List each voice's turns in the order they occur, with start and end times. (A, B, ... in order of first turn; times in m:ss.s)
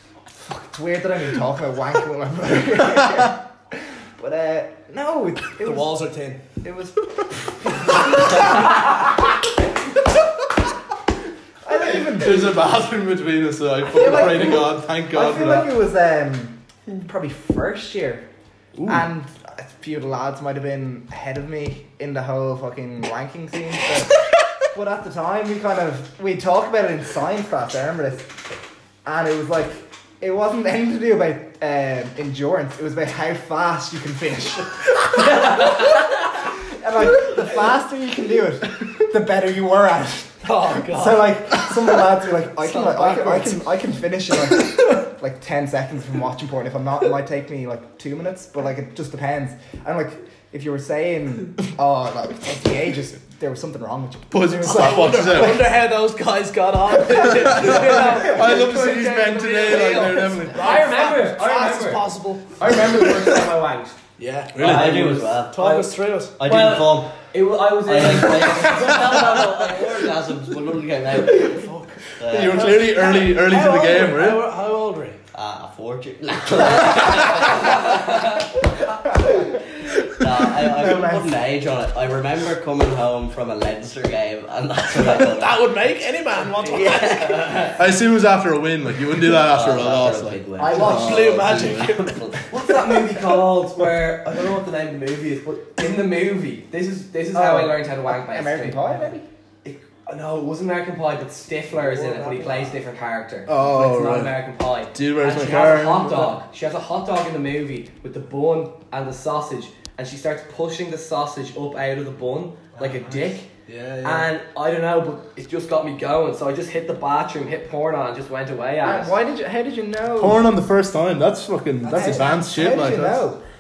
0:00.4-0:06.0 A
0:05.6-0:06.4 B
0:06.6-0:08.3 A
0:11.6-0:12.7 A
0:12.1-0:15.7 C
0:13.9-0:18.2 A
0:18.7-0:19.0 C
0:18.8-0:28.4 A
0:29.0-0:35.7 A
0:36.7-0:55.6 A
0:40.4-0:41.7 B
0:42.6-0:43.6 B
0:54.3-0:55.6 C
0:54.6-1:03.1 B
0:57.4-1:00.9 C
0:57.6-0:58.5 A
0:59.6-1:04.0 D
1:04.2-1:06.4 B
1:04.5-1:05.3 C
1:04.6-1:05.8 E
1:04.6-1:05.9 D
1:06.4-1:07.2 E
1:06.4-1:09.6 D
1:07.8-1:12.8 E
1:11.6-1:14.4 C
1:13.0-1:15.2 B
1:15.3-1:18.4 E
1:20.1-1:25.6 E
1:20.6-1:21.3 A
1:24.9-1:27.7 B
1:26.7-1:27.7 E
1:27.6-1:31.4 C
1:29.3-1:32.4 E
1:30.6-1:31.3 D
1:30.7-1:32.3 B
1:32.5-1:38.9 D
1:37.3-1:39.2 A
1:39.6-1:53.5 D
1:42.0-1:42.6 A
1:43.5-1:44.4 C
1:44.9-1:46.3 C
1:52.8-1:54.3 B
1:54.0-1:59.1 D
1:58.8-2:00.5 A
2:00.2-2:03.2 C
2:01.8-2:02.3 D
2:01.8-2:03.4 A